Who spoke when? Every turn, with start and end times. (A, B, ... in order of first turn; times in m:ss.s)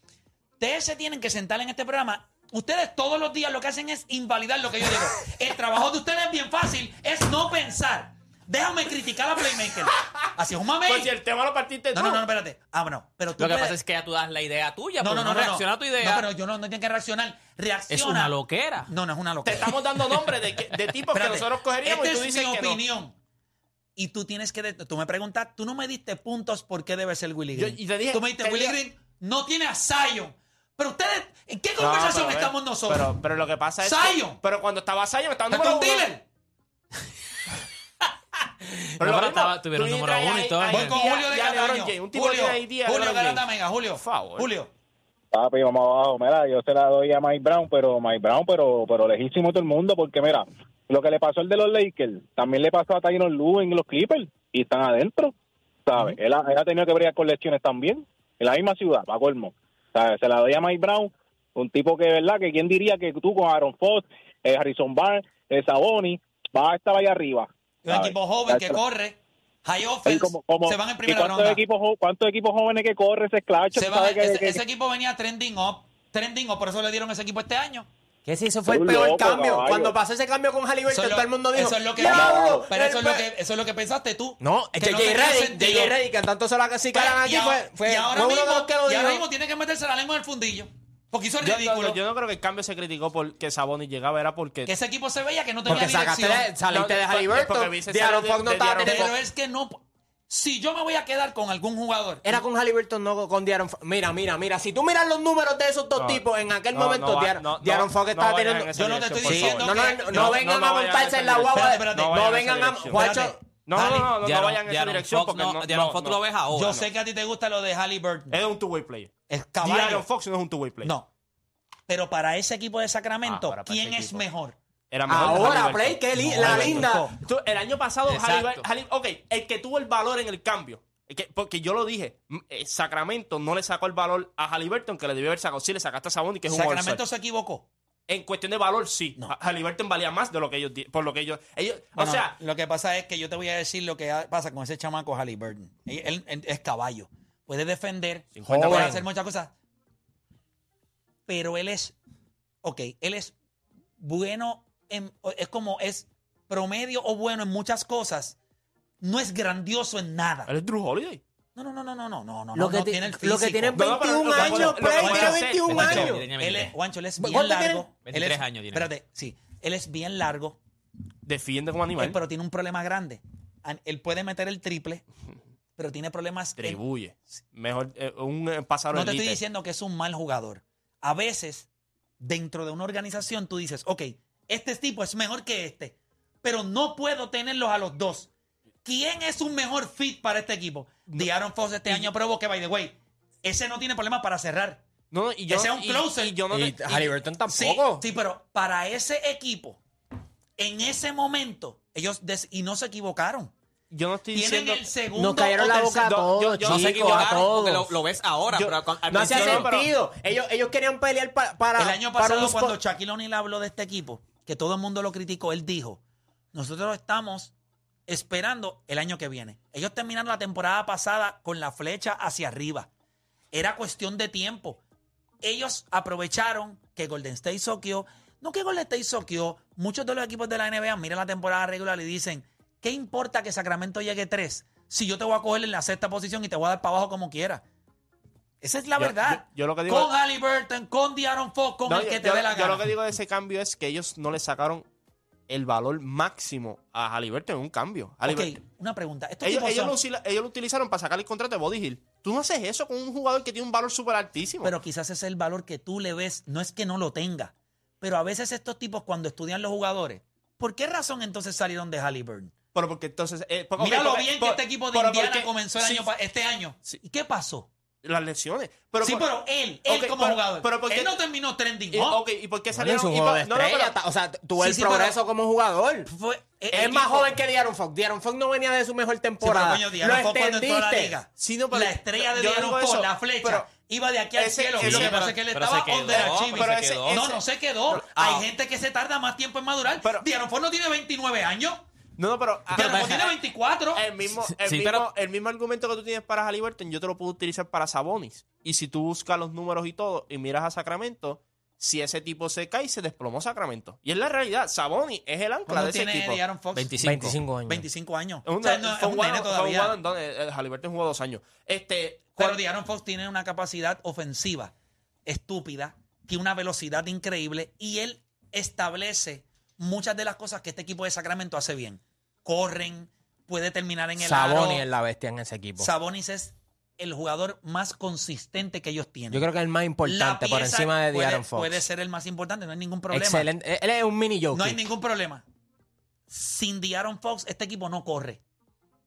0:00.6-0:11.1 A
0:10.8-0:12.2 B
0:11.9-0:13.8 A
0:13.4-0:16.2 C
0:15.0-0:18.3 A
0:17.9-0:18.9 C
0:18.9-0:19.7 A
0:19.4-0:22.8 B
0:21.1-0:23.1 A
0:24.0-0:33.2 A
0:27.5-0:28.8 B
0:31.8-0:36.1 B
0:33.8-0:34.4 A
0:35.5-0:36.2 A
0:38.6-0:41.0 C
0:39.0-0:44.5 B
0:40.7-0:44.7 A
0:45.3-0:55.3 D
0:55.8-1:08.8 D
1:07.8-1:11.6 A
1:10.0-1:14.6 D
1:13.7-1:17.9 A
1:18.2-1:23.2 E
1:18.7-1:19.9 D
1:20.9-1:25.9 A
1:22.0-1:22.7 D
1:24.4-1:29.2 E
1:26.9-1:32.0 A
1:31.4-1:34.7 B
1:34.6-1:36.5 A
1:35.6-1:39.1 E
1:36.6-1:39.1 B
1:38.8-1:42.4 A
1:42.2-1:48.7 E
1:46.0-1:53.1 B
1:48.7-1:50.4 A
1:49.2-1:53.4 E
1:51.5-1:52.3 A
1:52.9-1:54.1 A
1:53.6-1:56.8 B
1:54.2-1:56.8 C
1:56.5-1:58.4 A
1:58.3-2:00.9 B
1:59.3-2:00.1 A
2:00.8-2:01.1 A
2:01.9-2:04.6 A
2:03.2-2:04.2 B
2:04.9-2:17.0 B
2:05.1-2:07.0 E
2:06.2-2:07.2 A
2:08.1-2:08.6 C
2:16.5-2:17.7 A
2:18.1-2:22.4 B
2:22.0-2:29.5 A
2:28.3-2:29.0 B
2:28.4-2:29.0 E
2:31.3-2:31.9 A
2:32.6-2:33.3 A
2:34.0-2:38.4 A
2:39.0-2:40.5 A
2:40.5-2:41.2 B
2:41.5-2:50.6 A
2:42.5-2:46.3 E
2:43.7-2:46.1 B
2:45.7-2:46.7 C
2:47.2-2:47.8 E
2:48.0-2:48.9 C
2:51.2-2:52.2 B
2:52.0-2:55.0 A
2:55.8-2:56.8 A
2:56.6-2:59.4 B
2:58.9-3:01.7 A
3:02.2-3:08.3 A
3:08.8-3:14.8 A
3:15.1-3:17.2 B
3:15.5-3:16.4 A
3:16.5-3:18.0 E
3:17.5-3:19.8 A
3:20.6-3:23.5 A
3:23.9-3:24.9 B
3:24.3-3:26.1 A
3:25.2-3:27.9 E
3:26.0-3:27.4 B
3:26.6-3:29.7 C
3:28.5-3:29.9 B
3:29.1-3:32.8 E
3:31.8-3:36.0 A
3:36.5-3:37.5 A
3:38.1-3:42.9 A
3:43.5-3:44.8 A
3:45.4-3:57.6 A
3:58.6-4:02.9 A
3:59.0-4:00.1 B
4:01.9-4:04.8 B
4:05.5-4:08.5 B
4:08.2-4:10.0 A
4:09.4-4:14.7 B
4:14.6-4:22.6 A
4:22.7-4:26.1 B
4:23.8-4:27.7 A
4:28.0-4:29.3 B
4:29.0-4:32.2 A
4:29.8-4:31.2 B
4:31.9-4:34.0 B
4:32.7-4:36.1 E
4:34.6-4:35.2 A
4:36.1-4:37.3 A
4:36.7-4:41.2 E
4:39.4-4:51.8 A
4:41.4-4:43.7 B
4:44.3-4:45.4 B
4:44.8-4:47.2 C
4:46.1-4:48.4 B
4:50.0-4:50.2 B
4:52.2-4:53.3 B
4:52.7-4:54.0 A
4:52.7-4:53.3 C
4:53.9-5:06.4 B
4:54.6-4:55.0 C
5:05.7-5:10.0 A
5:06.7-5:07.4 C
5:07.0-5:07.8 E
5:08.4-5:12.6 B
5:12.4-5:14.7 A
5:15.2-5:24.8 A
5:24.2-5:25.9 E
5:25.8-5:29.5 A
5:29.3-5:31.8 E
5:30.0-5:33.5 A
5:33.1-5:34.8 E
5:34.5-5:35.4 A
5:36.3-5:38.4 A